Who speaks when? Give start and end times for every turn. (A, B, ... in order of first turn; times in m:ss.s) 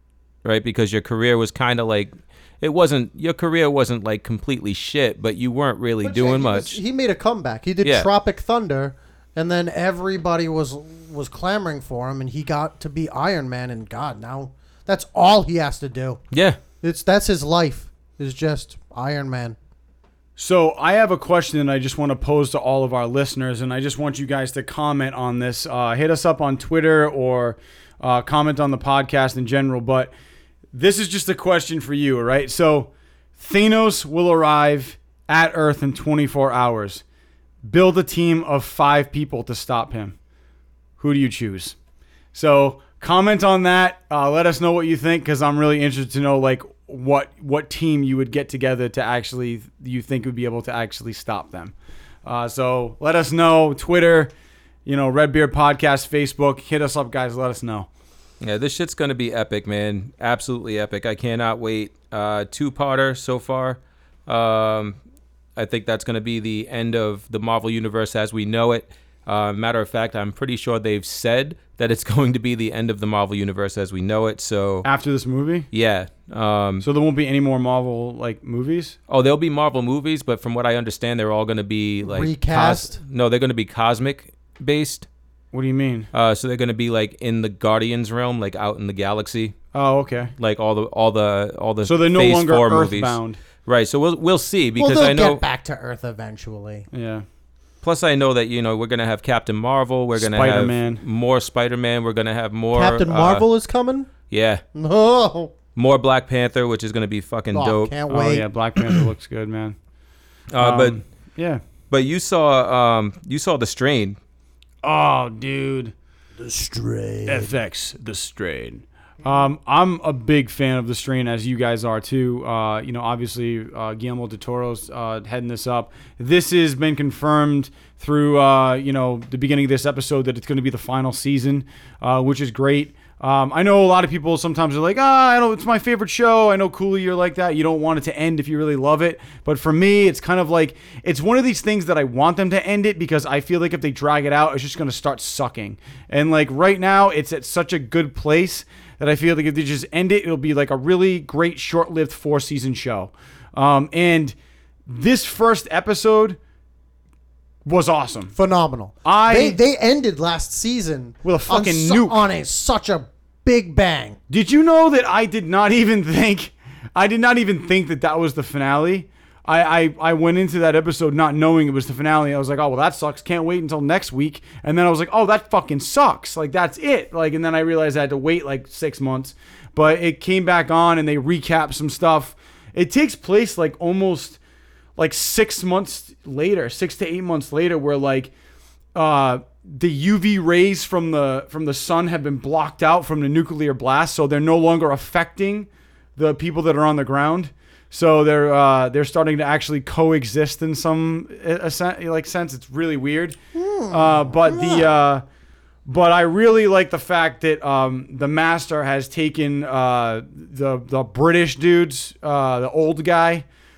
0:00.4-0:06.8 A
0:06.0-0:16.2 B
0:07.8-0:08.1 A
0:16.3-0:16.6 A
0:16.8-0:19.6 B
0:20.4-0:30.1 C
0:30.7-0:37.0 C
0:37.6-0:40.2 C
0:41.0-0:41.8 C
0:42.3-0:54.3 C
0:54.9-0:57.9 C
0:58.4-1:05.0 A
1:05.6-1:14.9 A
1:14.8-1:15.7 C
1:15.7-1:16.8 A
1:16.8-1:19.0 C
1:19.1-1:25.1 A
1:22.0-1:23.0 B
1:25.5-1:26.1 C
1:26.1-1:29.6 A
1:29.7-1:30.3 C
1:30.4-1:35.4 A
1:31.8-1:33.4 C
1:34.8-1:36.9 B
1:36.9-1:37.3 C
1:37.8-1:43.5 A
1:40.2-1:41.0 C
1:42.7-1:44.1 B
1:44.3-1:44.6 A
1:44.7-1:45.5 B
1:45.8-1:47.9 A
1:47.5-1:48.5 B
1:48.1-1:49.8 C
1:50.5-1:51.0 A
1:50.6-1:51.6 C
1:51.9-1:54.2 A
1:54.8-1:55.9 C
1:56.4-1:57.5 B
1:57.3-2:34.4 C
2:34.9-2:36.4 C
2:37.6-2:38.3 C
2:38.4-2:44.2 B
2:39.0-2:39.6 C
2:41.2-2:42.2 C
2:44.3-3:04.4 C
3:05.0-3:08.3 C
3:09.0-3:23.4 C
3:23.5-3:24.9 B
3:23.9-3:25.2 C
3:25.8-3:33.5 C